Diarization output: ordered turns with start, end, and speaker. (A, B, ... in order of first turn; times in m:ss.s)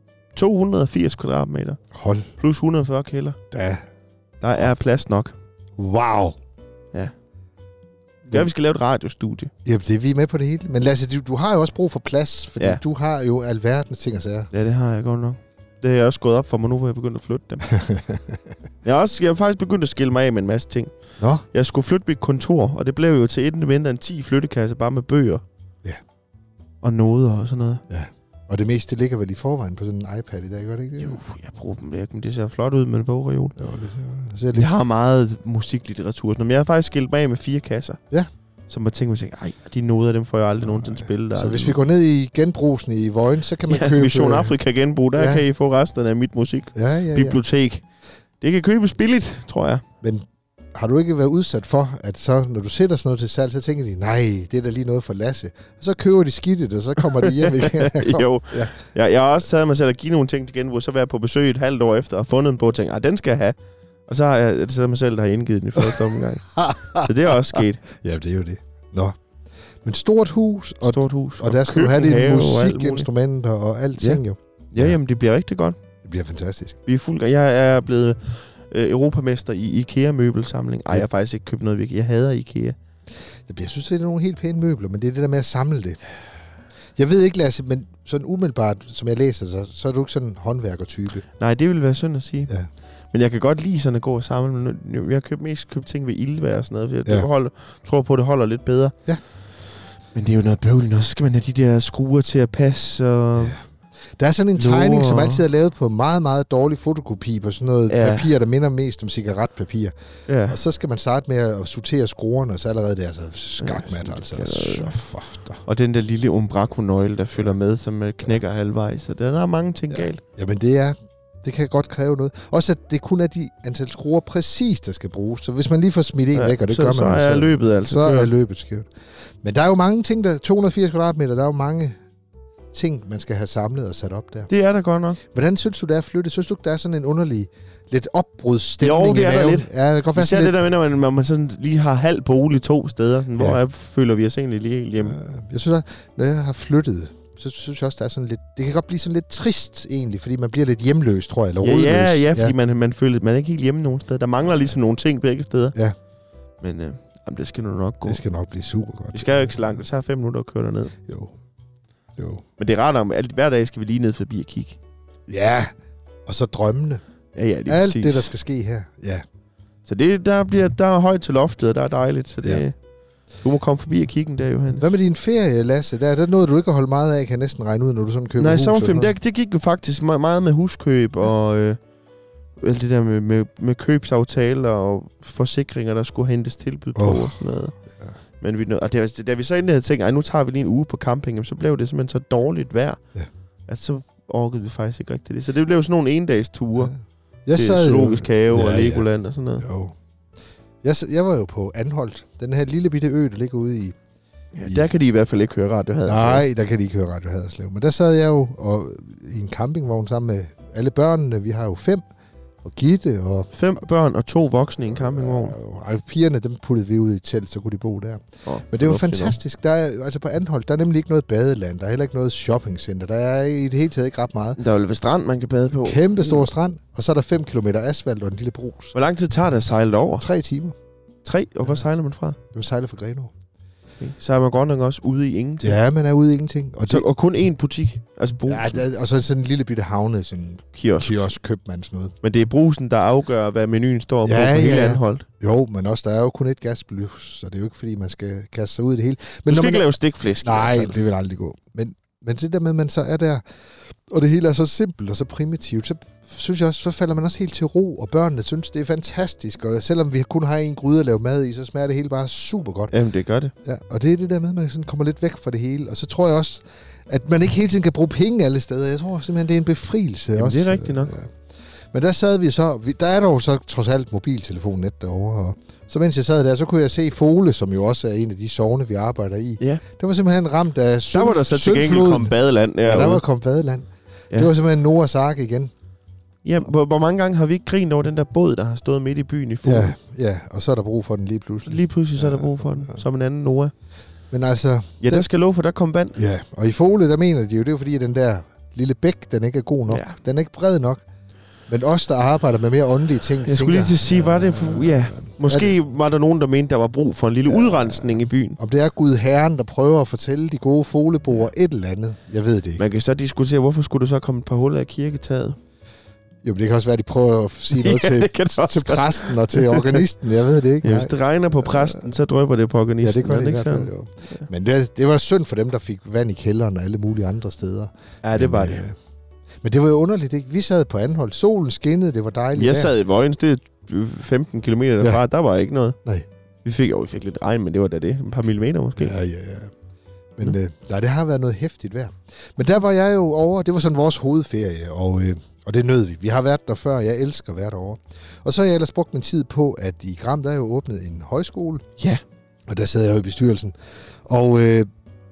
0:00.4-0:01.8 A
0:01.9-0:02.3 B
0:02.4-0:03.4 A
0:03.5-0:03.8 B
0:04.4-0:05.3 A
0:05.8-0:06.4 B
0:08.3-0:09.5 A
0:09.6-0:14.5 B
0:14.5-0:17.8 A
0:17.7-0:18.4 B
0:18.8-0:20.9 A
0:21.2-0:21.4 B
0:21.5-0:25.4 A
0:26.8-0:27.8 A
0:27.9-0:31.2 B
0:31.0-0:33.6 A
0:33.6-0:34.7 B
0:34.5-0:38.0 A
0:38.7-0:41.8 A
0:40.6-0:44.5 B
0:43.7-0:47.8 A
0:45.1-0:45.4 B
0:46.7-0:47.4 B
0:48.4-0:49.8 A
0:50.0-0:58.7 B
0:57.2-1:03.6 A
1:04.1-1:07.8 A
1:05.8-1:09.2 B
1:09.8-1:15.0 B
1:10.8-1:13.1 A
1:14.0-1:15.8 A
1:16.0-1:16.8 B
1:16.8-1:22.8 A
1:23.5-1:26.0 B
1:27.0-1:31.2 B
1:31.4-1:32.5 A
1:33.1-1:38.9 A
1:40.1-1:43.6 A
1:44.2-1:49.9 B
1:44.6-1:45.4 A
1:47.9-1:48.3 A
1:50.3-1:50.6 A
1:50.5-1:55.6 B
1:53.6-1:55.0 A
1:55.6-2:00.2 A
1:59.9-2:08.9 B
2:06.3-2:08.3 A
2:09.4-2:12.0 B
2:12.7-2:14.5 B
2:14.5-2:15.2 A
2:15.2-2:20.6 B
2:18.8-2:25.2 A
2:25.0-2:32.5 B
2:31.6-2:35.7 A
2:36.6-2:38.2 A
2:38.0-2:39.8 B
2:39.1-2:40.9 A
2:41.1-2:41.3 B
2:42.2-2:42.4 B
2:42.6-2:44.8 A
2:45.3-2:45.7 B
2:46.2-2:47.0 B
2:47.3-2:48.3 A
2:47.7-2:49.2 B
2:49.8-2:52.7 A
2:53.4-2:54.9 A
2:54.8-2:59.1 B
2:58.4-3:01.8 A
3:02.6-3:07.7 A
3:07.0-3:07.4 B
3:08.4-3:13.0 A
3:13.7-3:16.9 A
3:17.5-3:19.0 B
3:17.5-3:19.6 A
3:19.6-3:19.9 B
3:20.8-3:24.0 B
3:24.5-3:26.4 A
3:24.6-3:24.9 B
3:26.0-3:32.0 B
3:32.6-3:33.5 B
3:33.5-3:35.6 A
3:34.8-3:44.6 B
3:38.4-3:39.4 A
3:44.6-3:46.5 A
3:45.7-3:48.9 B
3:48.9-3:50.2 A
3:50.2-3:50.7 B
3:51.2-3:52.4 A
3:52.5-3:53.3 B
3:54.0-3:55.8 A
3:55.6-3:57.1 B
3:56.9-3:58.8 A
3:58.5-4:02.1 B
4:00.7-4:01.3 A
4:02.2-4:05.2 A
4:04.2-4:09.9 B
4:09.5-4:11.0 A
4:10.4-4:22.9 B
4:22.9-4:23.5 A
4:23.6-4:31.3 B
4:30.3-4:31.2 A
4:31.9-4:45.7 B
4:41.1-4:43.2 A
4:46.4-4:49.9 A
4:49.6-4:53.0 B
4:51.7-4:53.7 A
4:54.3-4:55.3 B
4:55.0-4:56.2 A
4:56.2-5:01.0 B
4:59.9-5:00.2 A
5:01.7-5:05.8 B
5:03.4-5:08.6 A
5:07.4-5:12.8 B
5:12.8-5:15.6 A
5:16.4-5:22.1 B
5:17.7-5:20.0 A
5:20.8-5:24.4 A
5:23.0-5:28.9 B
5:28.2-5:28.9 A
5:29.6-5:32.9 B
5:32.5-5:36.0 A
5:36.6-5:39.2 A
5:39.0-5:39.7 B
5:40.4-5:51.8 B
5:52.7-5:53.7 B
5:54.3-5:54.9 B